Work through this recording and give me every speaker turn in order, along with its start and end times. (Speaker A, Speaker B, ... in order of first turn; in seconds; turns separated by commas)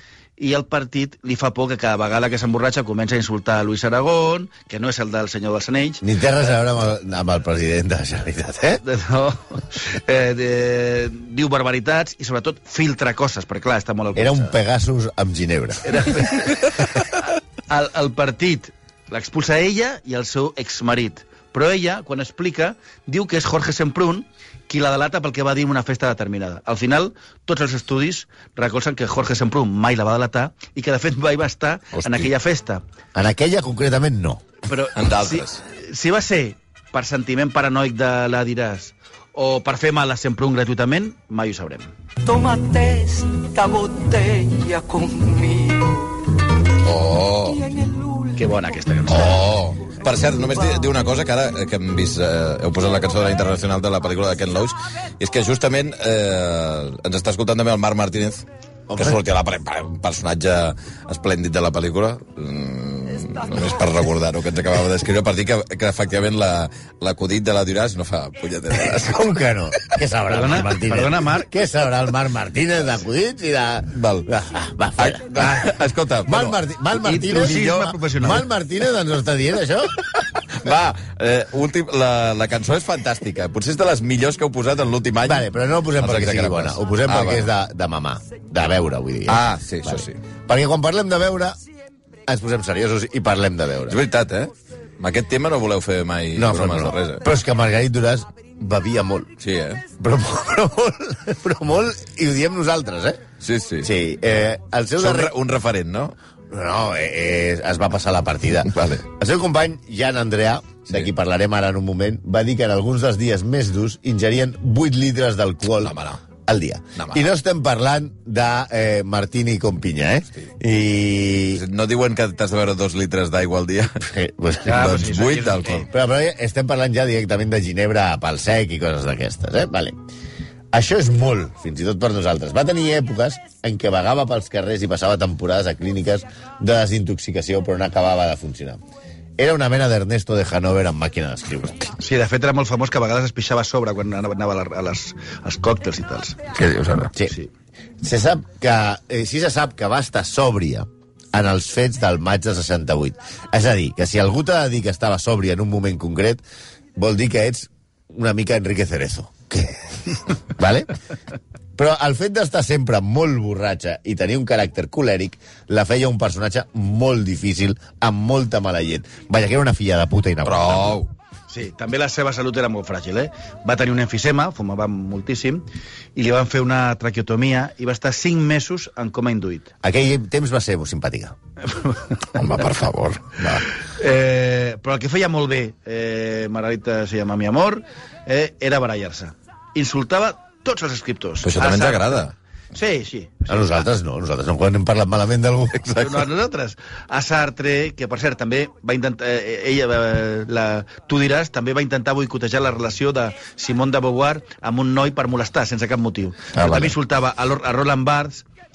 Speaker A: 0.4-6.0, Speaker B: 6.0-8.8, Speaker A: 8.8-14.5, Speaker B: 14.1-16.1, Speaker A: 15.8-17.0, Speaker A: 17.7-32.8, Speaker C: 32.0-32.3, Speaker B: 33.1-34.4, Speaker A: 34.6-41.9, Speaker C: 35.0-35.6, Speaker D: 42.2-46.3, Speaker C: 46.8-47.6, Speaker D: 47.4-49.5, Speaker A: 48.4-49.4, Speaker C: 49.1-58.4, Speaker D: 50.1-50.9, Speaker B: 58.9-59.2, Speaker C: 59.0-69.2, Speaker B: 68.7-75.7, Speaker A: 70.3-71.5, Speaker C: 73.9-74.3, Speaker C: 75.0-76.6, Speaker B: 76.2-80.0, Speaker A: 77.0-78.5, Speaker C: 77.4-77.9, Speaker C: 80.5-87.5, Speaker B: 85.2-91.6, Speaker C: 89.3-90.2, Speaker B: 92.3-94.0, Speaker C: 93.9-97.2, Speaker B: 96.3-99.3, Speaker C: 99.4-99.8, Speaker B: 100.0-103.2, Speaker C: 103.4-103.9, Speaker B: 103.8-105.3, Speaker C: 105.0-106.1, Speaker B: 106.5-121.6, Speaker C: 108.7-109.0, Speaker C: 115.8-116.2, Speaker C: 121.5-124.0, Speaker B: 124.0-124.9, Speaker A: 124.6-125.9, Speaker C: 124.7-125.9, Speaker B: 125.9-130.0, Speaker B: 130.7-138.8, Speaker B: 139.4-141.9, Speaker A: 142.0-146.4, Speaker C: 146.5-147.1, Speaker B: 148.0-156.4, Speaker B: 156.9-160.9, Speaker B: 161.8-171.0, Speaker C: 170.4-171.1, Speaker A: 171.5-175.6, Speaker A: 176.1-179.7, Speaker B: 179.8-181.3, Speaker C: 182.3-183.7, Speaker A: 183.8-193.8, Speaker C: 191.4-192.3, Speaker B: 193.5-196.0, Speaker C: 195.8-196.2, Speaker A: 195.9-208.4, Speaker C: 206.6-206.9